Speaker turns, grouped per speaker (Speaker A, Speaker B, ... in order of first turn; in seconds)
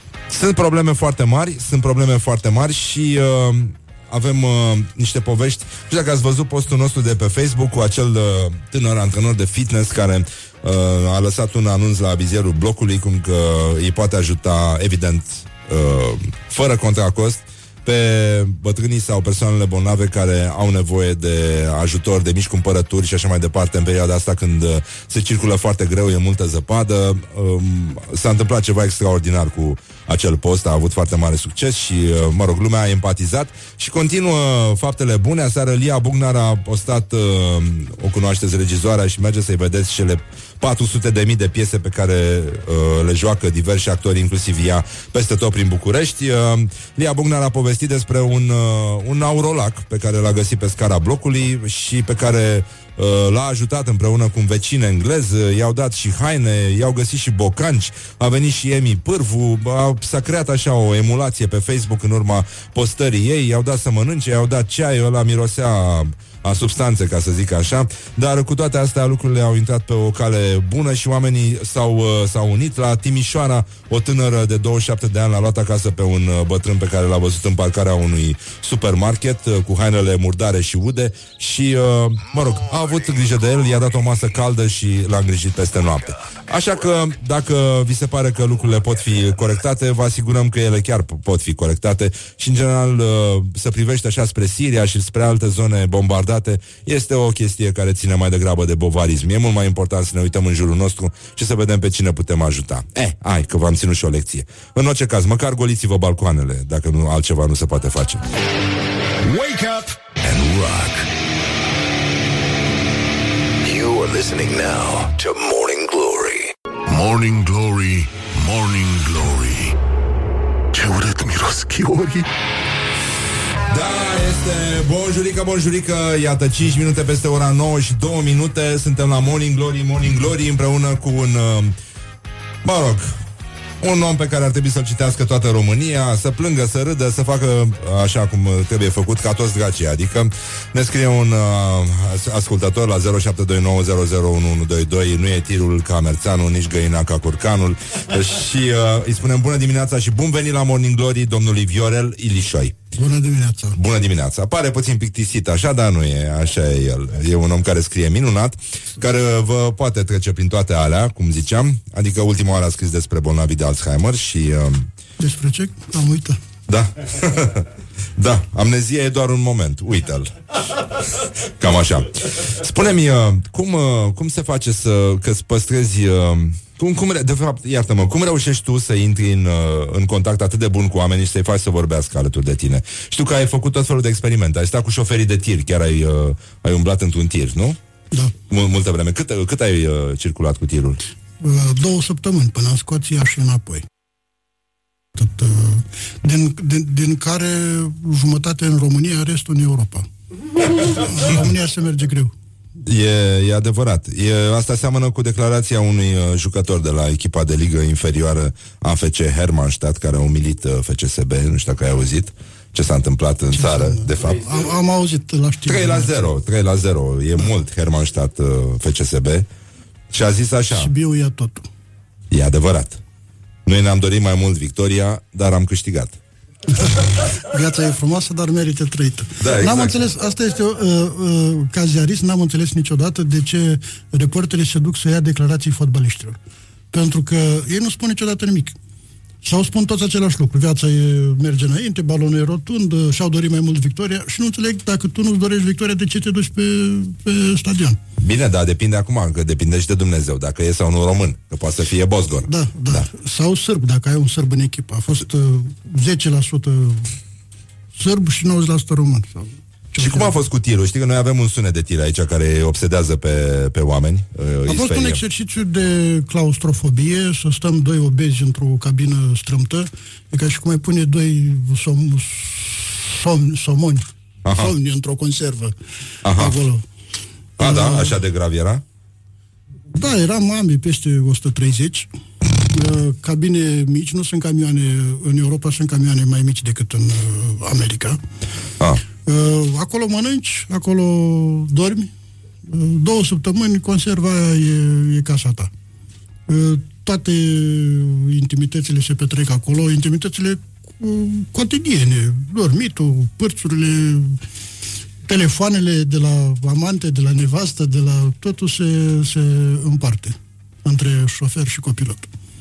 Speaker A: 0.3-108.2, 123.7-131.8, 132.6-133.2, 133.8-152.8, 153.7-164.9, 166.7-170.3, 171.6-187.8, 188.5-191.0, 202.9-214.5, 215.7-219.5, 220.1-220.9, 222.3-223.0, 223.7-226.2, 229.4-230.0, 248.2-253.1, 260.0-265.2, 274.4-274.7, 276.2-276.6, 277.6-278.8
Speaker B: 109.2-110.0, 116.9-119.8, 120.7-122.3
Speaker C: 110.2-111.1, 113.6-116.5
Speaker D: 153.0-153.8, 165.2-166.4, 191.4-193.9, 195.2-200.1, 200.8-202.3, 213.5-216.2, 220.7-221.7, 226.8-236.4, 236.9-238.8, 239.4-248.0, 252.5-257.1, 257.9-259.4, 259.9-260.3, 264.7-275.7, 276.3-276.9, 277.6-278.1, 279.9-282.1, 282.7-288.2, 289.2-292.1, 292.7-295.7, 296.5-304.4, 305.3-312.3